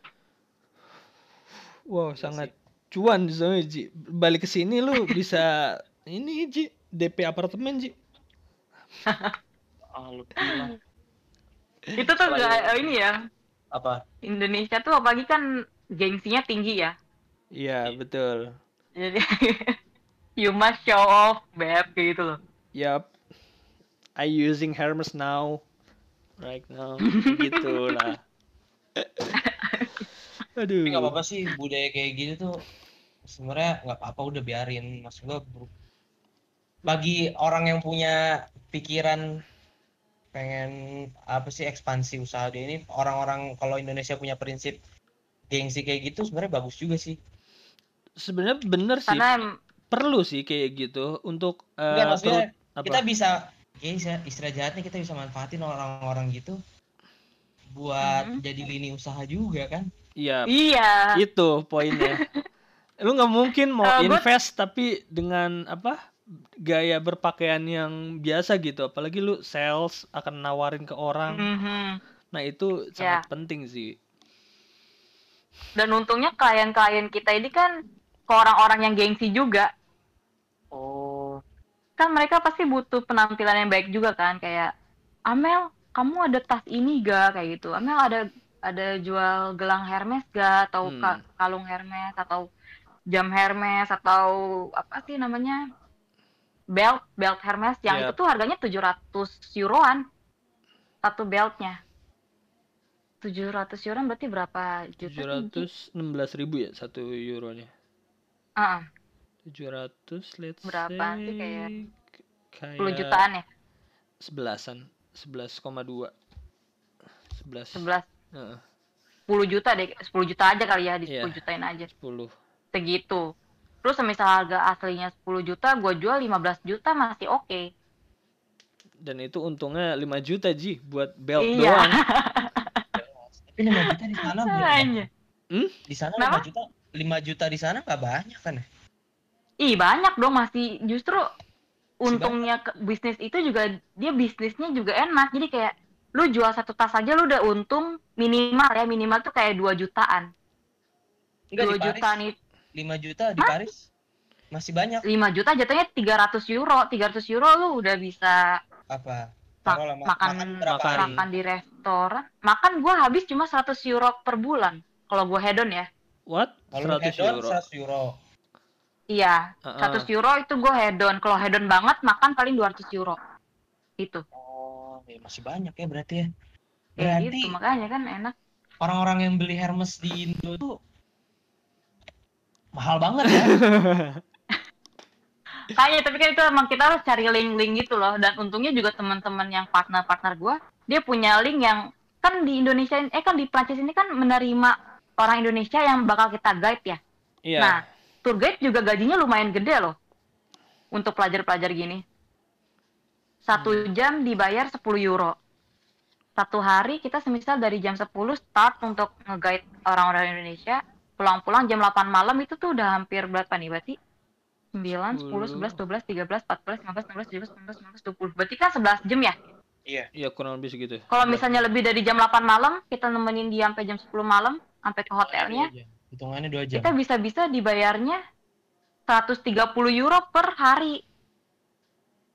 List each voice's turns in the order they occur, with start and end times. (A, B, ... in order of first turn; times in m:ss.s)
0:01.9-0:07.9 A
0:02.2-0:02.5 B
0:09.1-0:09.3 C
0:09.9-0:10.7 B
0:10.4-0:10.7 C
0:12.0-0:13.2 C
0:12.2-0:12.9 B
0:13.7-0:14.0 B
0:14.3-0:15.5 C
0:16.0-0:16.9 C
0:17.6-0:18.5 A
0:19.0-0:19.8 C
0:20.4-0:22.4 C
0:22.8-0:23.1 A
0:24.2-0:25.6 A
0:26.4-0:28.2 A
0:27.1-0:28.1 C
0:29.0-0:29.4 A
0:29.4-0:30.0 C
0:30.6-0:31.1 A
0:30.9-0:32.5 B
0:33.3-0:35.7 B
0:36.9-0:38.2 B
0:38.7-0:39.2 B
0:40.3-0:40.7 B
0:41.3-0:44.8 B
0:45.5-0:47.2 B
0:48.2-0:49.3 A
0:49.1-0:49.6 C
0:49.9-0:53.0 A
0:51.9-0:56.6 B
0:57.7-0:59.9 B
0:58.0-0:58.4 C
1:00.2-1:00.5 A
1:00.5-1:01.2 C
1:01.2-1:02.2 A
1:01.9-1:02.4 C
1:03.0-1:06.0 A
1:03.8-1:04.2 C
1:06.7-1:11.5 A
1:11.3-1:12.0 C
1:12.3-1:14.0 A
1:13.0-1:13.2 C
1:15.8-1:17.7 C
1:18.3-1:19.7 C
1:20.7-1:21.4 B
1:22.0-1:24.7 C
1:25.3-1:32.4 C
1:30.8-1:31.2 A
1:33.1-1:35.6 C
1:36.8-1:40.0 C
1:37.9-1:38.1 A
1:41.0-1:41.8 C
1:43.2-1:45.7 C
1:45.1-1:47.7 A
1:48.6-1:48.8 C
1:49.5-1:51.9 A
1:50.6-1:51.7 C
1:52.5-1:53.2 A
1:52.8-1:53.4 C
1:54.3-1:56.1 A
1:57.4-1:58.6 A
1:57.8-1:58.1 C
1:59.3-2:01.9 C
2:01.1-2:01.4 A
2:01.9-2:02.3 A
2:02.7-2:03.2 C
2:03.8-2:07.6 C
2:09.0-2:12.0 A
2:11.4-2:12.8 C
2:13.0-2:15.1 B
2:14.2-2:15.1 C
2:15.9-2:18.6 B
2:19.6-2:21.2 C
2:22.0-2:30.3 C
2:22.1-2:22.4 B
2:31.5-2:32.2 B
2:31.6-2:32.3 C
2:32.8-2:33.9 B
2:34.5-2:35.0 B
2:35.0-2:38.5 C
2:38.9-2:41.2 B
2:39.7-2:45.9 C
2:40.7-2:41.3 A
2:46.3-2:47.6 A
2:46.7-2:48.1 B
2:49.1-2:53.2 C
2:49.7-2:50.1 A
2:54.3-2:56.3 B
2:57.0-2:58.3 C
2:57.0-2:57.6 B
2:58.8-3:00.7 B
3:02.8-3:03.6 B
3:03.3-3:04.2 A
3:05.7-3:17.0 C
3:17.5-3:17.8 A
3:17.6-3:20.0 C
3:21.0-3:22.0 C
3:23.5-3:25.4 C
3:23.6-3:23.9 A
3:26.4-3:34.0 C
3:34.7-3:39.4 C
3:35.1-3:35.8 A
3:40.2-3:41.4 A
3:41.1-3:45.7 C
3:45.2-3:46.9 B
3:46.8-3:48.2 C
3:49.1-3:51.0 C